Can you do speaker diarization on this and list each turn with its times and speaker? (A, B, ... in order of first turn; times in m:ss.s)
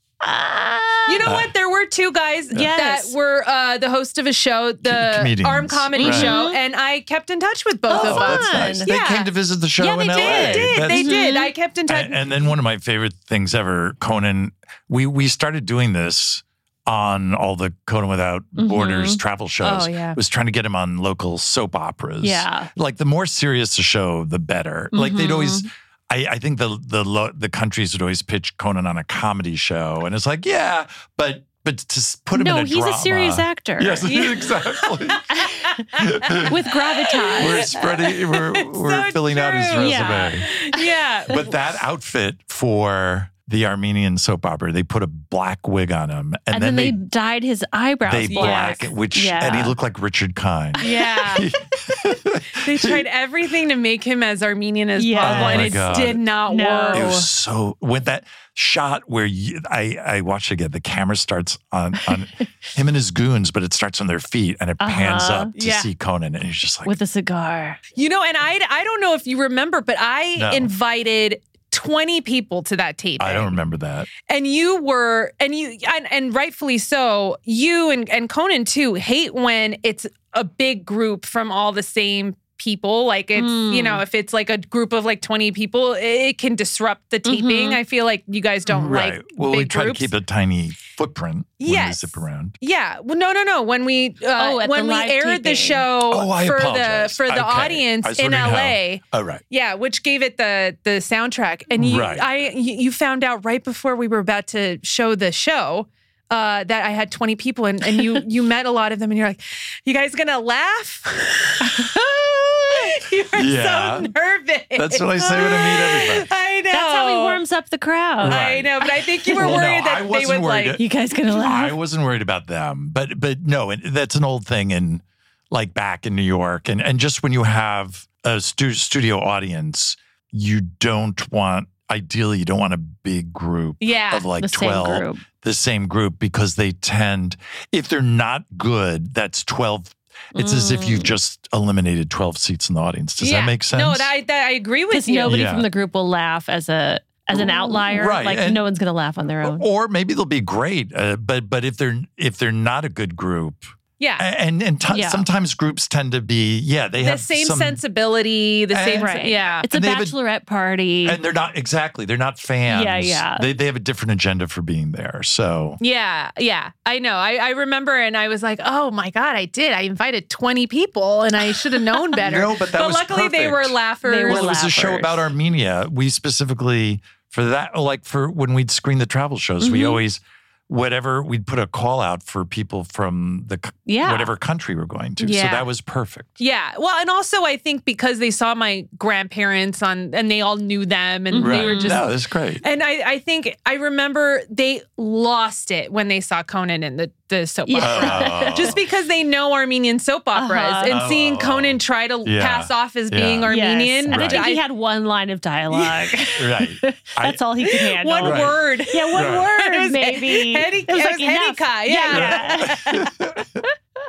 0:00.2-0:01.3 A
0:01.1-0:09.3 B
0:01.2-0:01.5 C
0:02.5-0:03.2 A
0:04.8-0:06.4 C
0:06.0-0:06.6 A
0:07.9-0:08.9 A
0:07.9-0:11.1 C
0:09.8-0:11.5 A
0:10.1-0:12.4 B
0:11.9-0:35.2 C
0:18.6-0:19.2 A
0:19.6-0:20.2 B
0:22.2-0:22.7 A
0:24.9-0:25.7 A
0:32.3-0:34.1 A
0:34.0-0:34.7 B
0:35.3-0:35.6 A
0:36.0-0:36.5 C
0:36.0-0:36.4 B
0:36.4-0:37.7 A
0:37.3-0:41.6 B
0:37.4-0:40.5 C
0:39.8-0:40.8 A
0:41.3-0:47.0 C
0:46.5-0:49.8 A
0:48.0-0:53.1 C
0:48.3-0:48.8 B
0:50.8-0:51.5 B
0:52.6-0:57.3 B
0:55.0-0:57.2 A
0:55.2-0:56.2 C
0:56.9-1:07.0 C
1:04.8-1:05.5 A
1:05.6-1:05.9 B
1:06.9-1:07.8 A
1:08.0-1:13.6 B
1:10.4-1:10.7 C
1:13.2-1:14.1 C
1:14.1-1:30.1 B
1:23.4-1:24.0 A
1:27.2-1:27.8 A
1:28.7-1:32.6 C
1:31.6-1:57.4 B
1:34.4-1:35.9 A
1:36.1-1:39.4 C
1:41.8-1:42.3 C
1:53.4-1:54.1 C
1:54.8-1:56.3 C
1:56.7-1:59.7 A
1:58.2-1:58.7 C
1:58.2-2:00.8 B
1:59.4-2:24.1 C
2:00.8-2:01.8 A
2:13.8-2:14.3 B
2:14.4-2:15.2 A
2:20.4-2:21.1 A
2:23.2-2:25.4 B
2:24.9-2:29.6 A
2:25.3-2:25.7 C
2:27.3-2:28.6 C
2:29.4-2:37.8 C
2:34.0-2:34.2 B
2:34.9-2:35.2 A
2:37.0-2:39.7 B
2:38.7-2:39.1 C
2:38.9-2:41.2 A
2:39.7-2:40.2 C
2:41.0-2:45.8 C
2:42.7-2:43.5 A
2:45.8-2:55.1 B
2:52.2-3:06.3 C
2:54.0-2:55.2 A
2:59.6-3:00.0 A
3:03.9-3:04.3 A
3:05.2-3:05.7 B
3:06.4-3:12.1 B
3:11.3-3:12.0 A
3:11.4-3:12.6 C
3:12.6-3:24.6 B
3:17.6-3:18.8 A
3:17.8-3:18.8 C
3:20.4-3:21.1 A
3:20.9-3:23.6 C
3:23.5-3:32.8 A
3:24.1-3:24.5 C
3:25.8-3:26.2 B
3:26.4-3:27.4 C
3:27.7-3:33.0 B
3:28.2-3:29.5 C
3:32.1-3:33.4 C